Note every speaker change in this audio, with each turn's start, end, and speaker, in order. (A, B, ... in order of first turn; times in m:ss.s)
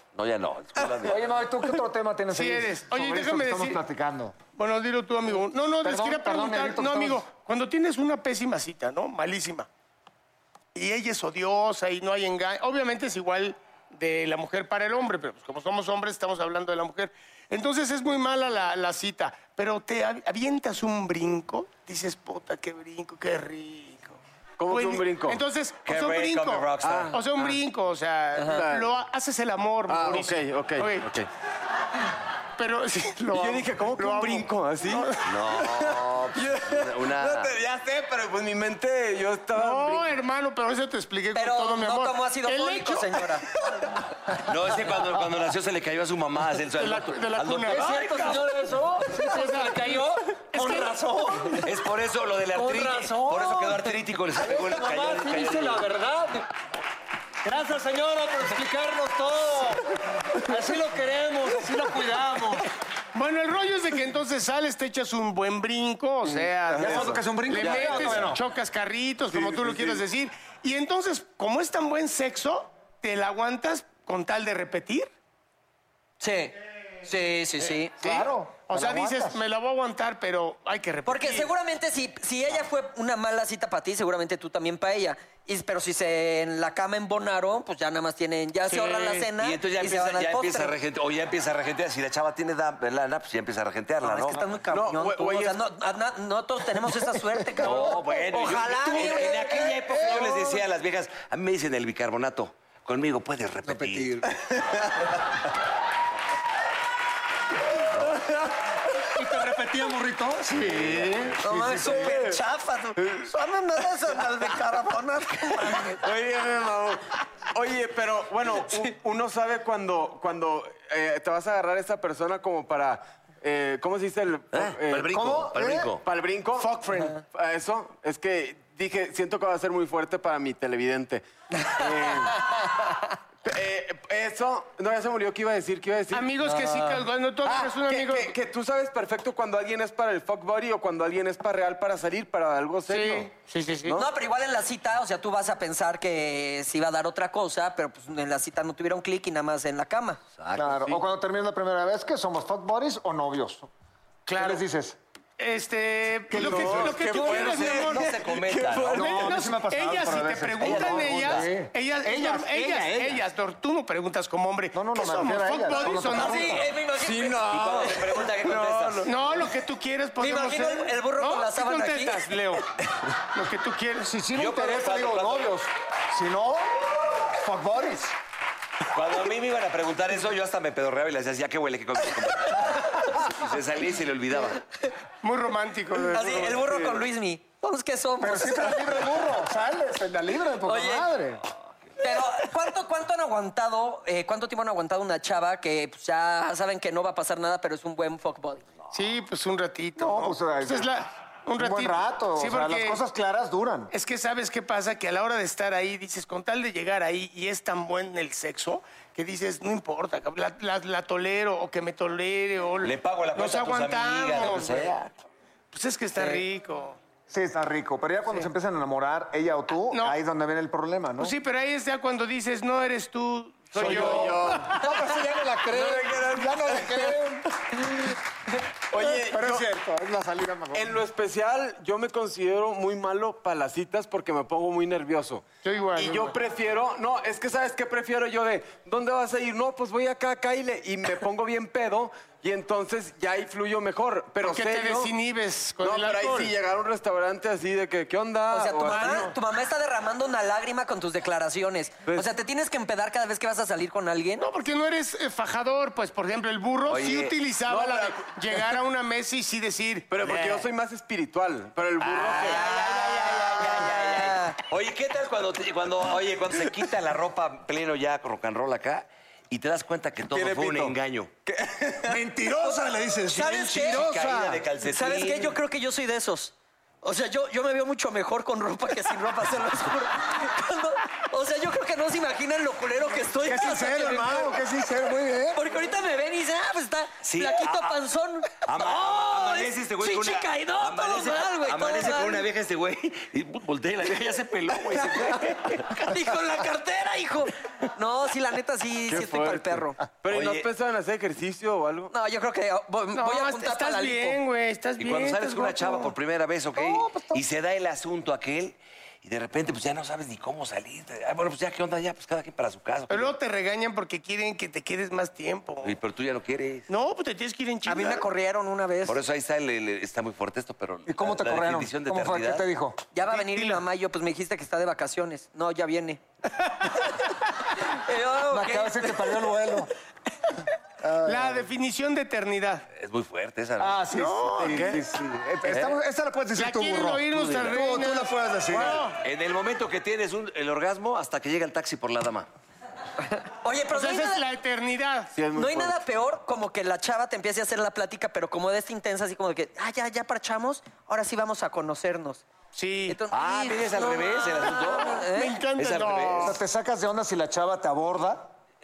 0:00.2-0:01.3 A
0:01.0-0:04.4 B
0:02.3-0:03.8 C
0:04.6-0:09.7 C
0:05.8-0:07.2 B
0:10.8-0:31.1 C
0:24.6-0:25.4 D
0:25.8-0:27.2 A
0:26.8-0:27.6 D
0:28.4-0:28.9 D
0:29.9-0:31.3 D
0:32.6-0:35.2 C
0:33.3-0:40.2 D
0:35.2-0:37.5 A
0:39.5-0:43.4 C
0:41.4-0:43.5 E
0:44.3-0:48.6 A
0:46.8-0:48.0 C
0:47.7-0:51.7 B
0:49.1-0:51.0 C
0:51.5-0:55.9 A
0:52.5-0:56.5 B
0:57.4-1:02.7 B
1:03.1-1:15.1 C
1:06.3-1:08.4 D
1:06.8-1:08.4 B
1:07.6-1:08.2 A
1:09.3-1:10.0 D
1:16.2-1:18.0 E
1:17.6-1:21.5 C
1:18.0-1:19.4 B
1:21.1-1:30.8 E
1:28.7-1:29.3 C
1:29.4-1:34.5 A
1:34.0-1:40.3 E
1:34.7-1:35.7 D
1:37.6-1:44.3 A
1:37.6-1:37.9 B
1:39.0-1:40.4 B
1:43.6-1:45.2 B
1:49.1-1:52.2 B
1:50.6-1:51.4 A
1:50.8-1:51.1 D
1:51.4-1:56.0 E
1:51.8-1:52.4 D
1:55.7-2:05.2 D
2:04.5-2:06.0 A
2:05.1-2:05.9 B
2:06.0-2:12.5 D
2:06.6-2:07.2 C
2:13.4-2:16.4 D
2:16.1-2:18.4 C
2:16.4-2:17.0 E
2:17.4-2:23.3 D
2:22.9-2:24.0 C
2:23.9-2:30.2 E
2:30.4-2:31.0 A
2:30.6-2:33.7 B
2:34.3-2:34.7 C
2:34.4-2:35.0 B
2:35.4-2:38.3 C
2:36.3-2:37.1 B
2:36.3-2:39.3 D
2:37.1-2:39.3 A
2:38.9-2:43.3 B
2:38.9-2:46.7 C
2:40.6-2:41.5 A
2:44.7-2:46.7 B
2:45.8-2:48.9 E
2:45.8-2:46.2 D
2:46.9-2:48.9 D
2:47.4-2:49.3 A
2:49.0-2:52.7 C
2:50.2-2:52.3 E
2:53.3-2:54.1 C
2:54.0-2:58.2 B
2:54.3-2:55.5 A
2:58.9-3:04.6 A
3:05.2-3:06.9 C
3:06.1-3:09.2 E
3:08.2-3:11.4 B
3:10.6-3:11.1 E
3:12.0-3:18.7 E
3:18.9-3:23.0 C
3:20.0-3:20.9 B
3:21.6-3:23.9 B
3:23.9-3:34.9 C
3:32.8-3:35.1 A
3:35.7-3:37.0 C
3:36.2-3:36.4 E
3:37.3-3:41.3 B
3:39.9-3:40.2 C
3:41.2-3:44.8 C
3:43.8-3:47.5 B
3:43.8-3:44.9 D
3:45.7-3:47.2 D
3:48.9-3:49.7 D
3:49.0-3:51.0 B
3:50.7-4:05.1 D
3:55.6-3:56.4 C
4:04.4-4:06.5 C
4:05.8-4:09.3 D
4:08.5-4:14.5 E
4:08.8-4:09.3 C
4:14.4-4:20.1 C
4:16.9-4:17.4 A
4:17.6-4:18.7 D
4:20.1-4:22.6 D
4:22.0-4:31.3 A
4:22.3-4:24.6 E
4:30.3-4:31.0 D
4:31.5-4:32.2 D
4:32.0-4:34.7 B
4:33.3-4:34.1 E
4:33.5-4:35.6 A
4:34.8-4:44.6 E
4:43.4-4:45.6 B
4:45.5-4:52.5 E
4:47.2-4:48.0 A
4:48.6-4:56.1 A
4:55.7-5:00.0 E
4:59.1-5:02.1 D
5:00.3-5:00.7 A
5:02.1-5:04.4 E
5:03.1-5:06.1 C
5:05.0-5:13.4 A
5:06.8-5:07.4 B
5:13.1-5:16.0 C
5:15.8-5:16.9 A
5:16.9-5:18.3 C
5:17.9-5:19.2 E
5:19.1-5:22.7 A
5:21.1-5:23.0 B
5:23.1-5:26.2 E
5:23.3-5:23.8 C
5:26.9-5:27.1 E
5:27.8-5:29.5 E
5:28.5-5:29.9 B
5:31.0-5:31.7 B
5:31.2-5:32.8 C
5:32.9-5:34.1 A
5:33.8-5:39.1 B
5:34.1-5:35.0 C
5:34.6-5:35.0 D
5:34.7-5:35.0 A
5:35.7-5:36.0 A
5:36.6-5:39.2 C
5:38.8-5:42.5 A
5:43.5-5:44.4 E
5:43.9-5:45.3 C
5:45.3-5:46.0 D
5:45.6-5:52.5 E
5:52.7-5:53.2 C
5:53.1-5:55.6 E
5:53.3-5:56.6 A
5:54.9-5:56.6 C
5:56.4-5:58.5 B